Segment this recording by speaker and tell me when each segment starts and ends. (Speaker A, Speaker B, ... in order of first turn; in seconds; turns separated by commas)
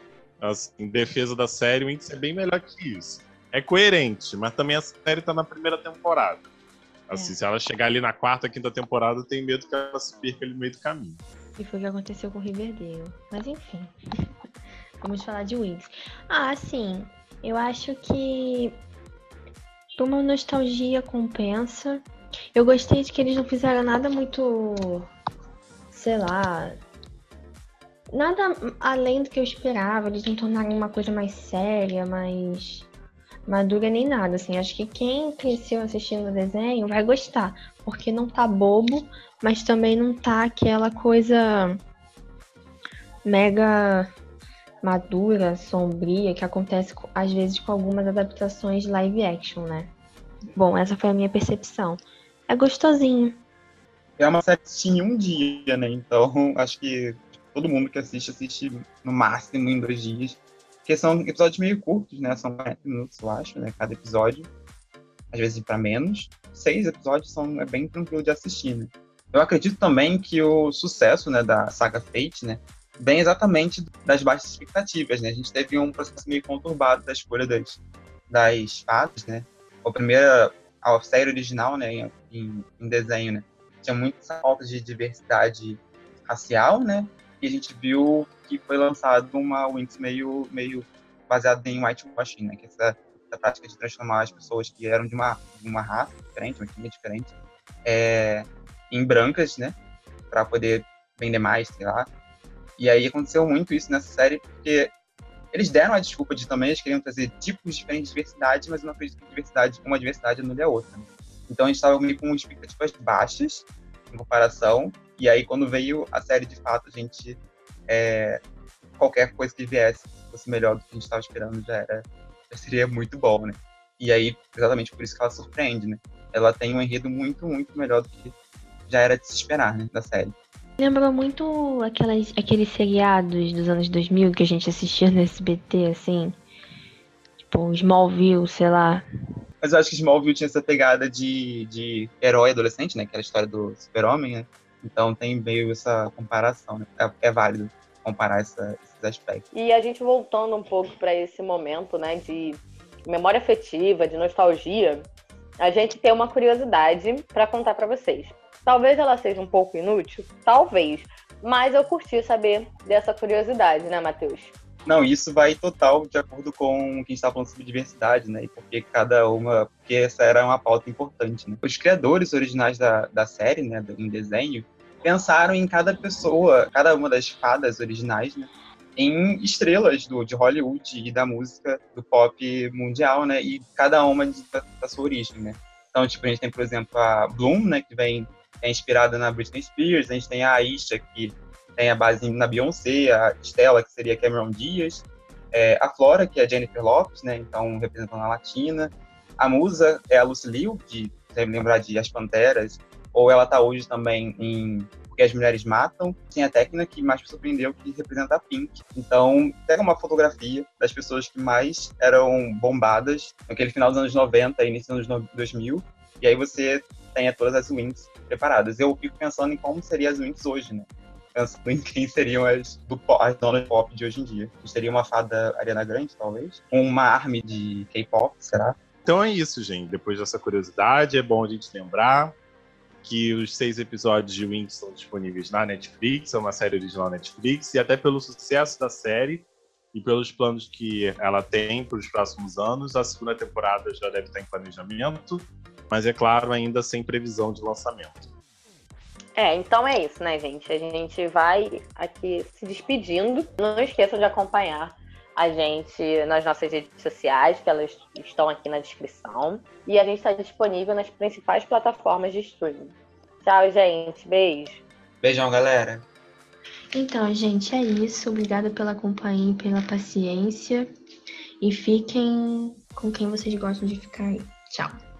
Speaker A: 0.4-6.5, Speaker A: 7.1-11.2, Speaker B: 11.6-13.9, Speaker B: 15.0-18.8, Speaker B: 19.9-25.1, Speaker B: 25.9-26.8, Speaker B: 28.1-32.9, Speaker B: 33.5-41.8, Speaker B: 43.2-44.1, Speaker B: 44.8-49.9, Speaker B: 50.5-53.4, Speaker C: 54.2-64.5, Speaker C: 65.3-97.3, Speaker C: 97.8-99.8, Speaker C: 100.3-102.1, Speaker C: 102.8-104.9, Speaker C: 105.5-118.4, Speaker C: 119.0-128.3, Speaker C: 128.8-130.3, Speaker B: 130.8-136.4, Speaker B: 137.4-139.1, Speaker C: 139.6-149.4, Speaker D: 149.5-155.1, Speaker D: 155.6-164.5, Speaker C: 164.8-228.8, Speaker A: 229.0-232.3, Speaker A: 233.0-248.3, Speaker D: 249.3-264.8, Speaker C: 265.2-266.0, Speaker B: 266.9-270.9, Speaker B: 271.6-275.0